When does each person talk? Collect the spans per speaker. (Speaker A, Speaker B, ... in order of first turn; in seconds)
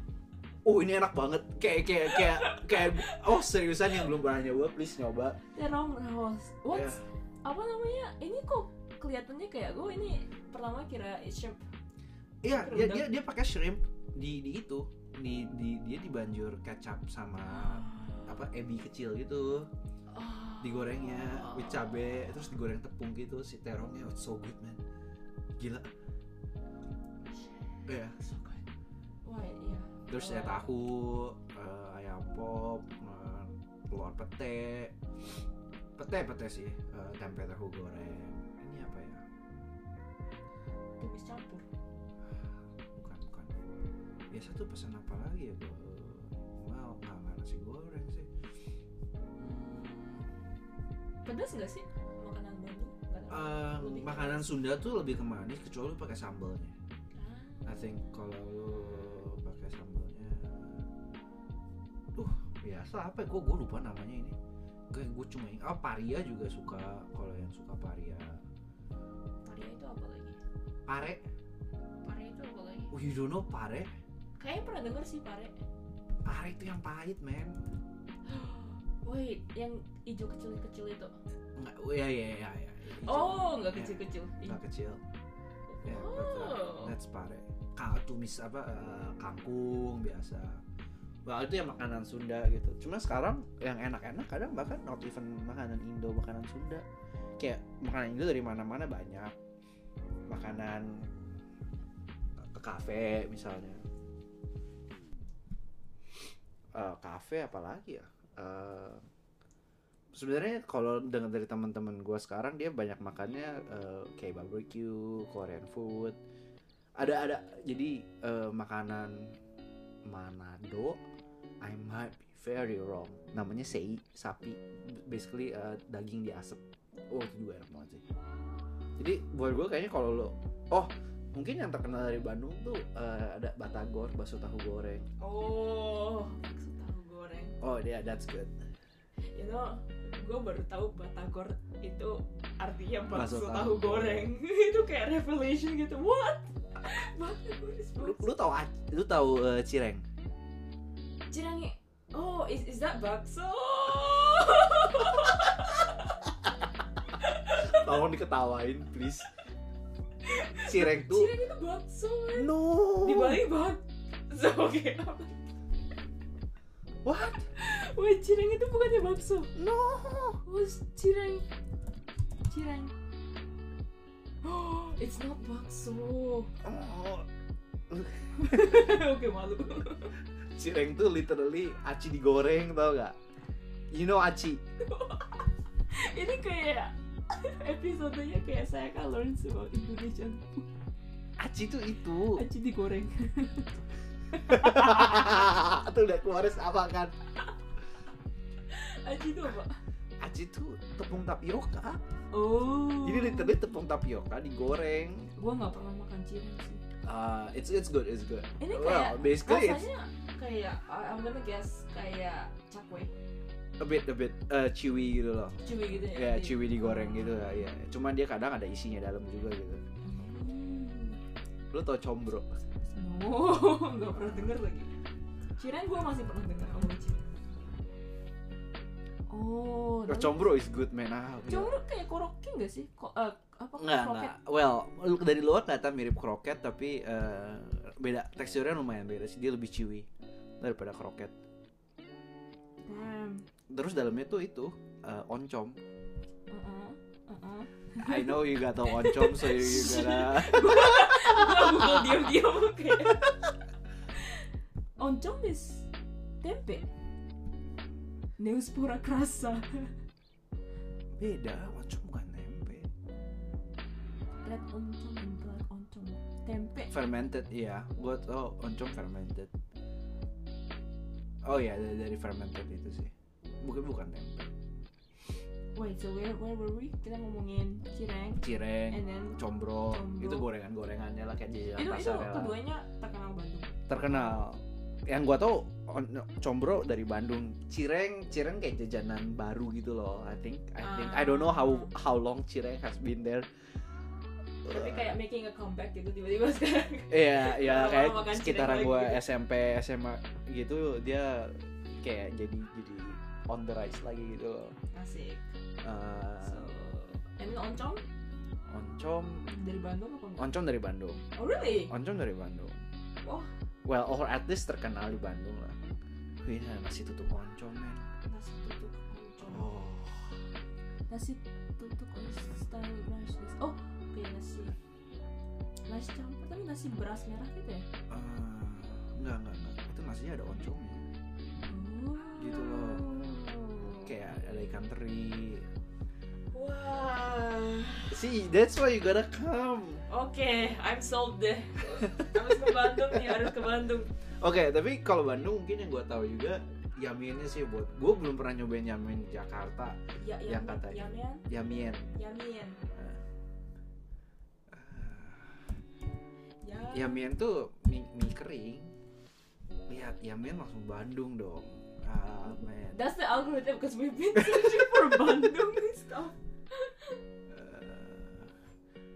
Speaker A: 0.7-5.4, 6.7-7.0, 12.4-19.7, 20.6-24.8, 25.6-25.9, 27.9-28.2, 30.1-35.0, 36.0-39.2, 43.0-43.5, 44.3-48.3, 49.4-50.3, 53.3-56.7, 57.6-60.8, 62.1-64.4, 64.9-68.4, 70.9-71.2, 72.9-73.9, 76.2-77.6, 81.5-85.0, 85.8-90.6, 91.2-96.8, 97.4-99.3, 100.3-101.1, 102.4-103.8, 106.7-109.0, 110.1-116.2, 117.0-119.3, 120.1-121.0, 121.6-128.0, 129.0-135.1, 137.6-138.6, 143.1-144.3, 148.0-150.1, 157.5-159.3, 160.6-161.3, 162.3-163.4, 167.0-167.5, 169.6-170.4, 176.6-177.3, 177.9-178.9, 180.5-183.2, 183.9-184.6, 191.4-192.4, 194.4-197.1, 200.2-202.0, 203.0-205.3, 207.0-209.8, 213.8-219.8, 221.7-222.5, 230.1-231.7, 233.8-240.1, 240.6-241.3, 243.7-245.8, 248.0-252.1, 261.2-262.9, 266.9-269.5, 271.4-274.5, 278.4-282.6, 283.9-293.7, 294.6-295.1, 297.1-304.8, 305.8-306.7, 308.7-309.5, 310.4-311.2, 311.9-312.8, 313.9-315.8, 316.4-318.1, 319.4-320.4, 328.1-331.1, 332.4-333.1, 334.0-335.7, 338.1-340.0, 342.1-342.4, 342.9-343.5, 344.4-352.1, 352.9-353.2, 354.7-355.8, 356.9-358.9, 359.9-363.0, 364.4-365.4, 367.5-368.6
Speaker B: 2.1-3.2, 5.5-11.6, 12.5-13.1, 17.5-18.3, 20.1-22.0, 28.2-28.6, 29.2-30.7, 41.0-41.7, 51.2-54.5, 57.1-57.8, 69.5-70.4, 72.0-72.9, 74.4-75.6, 78.3-81.2, 83.0-84.6, 85.7-86.9, 135.2-137.6, 139.3-148.3, 151.3-156.2, 157.2-157.9, 160.2-165.3, 167.2-169.5, 170.4-171.4, 172.5-172.9, 174.4-176.5, 178.3-180.2, 184.8-190.7, 192.3-193.8, 194.3-195.3, 198.7-199.8, 202.3-203.6, 205.4-206.8, 208.6-213.1, 215.6-217.7, 220.0-221.2, 222.9-224.9, 225.6-227.2, 229.3-230.5, 231.4-234.3, 242.8-243.4, 246.5-253.3, 255.0-255.9, 256.4-256.9, 258.4-260.0, 264.4-266.9, 275.8-280.5, 281.8-284.4, 290.8-291.9, 294.7-299.2, 304.9-305.5, 306.4-308.0, 309.5-310.6, 311.4-311.9, 313.2-313.5, 318.3-319.7, 321.1-324.8, 325.9-327.9, 331.7-334.1, 336.5-338.2, 340.1-344.1, 350.2-351.4, 352.1-352.8, 356.6-357.2, 362.5-367.2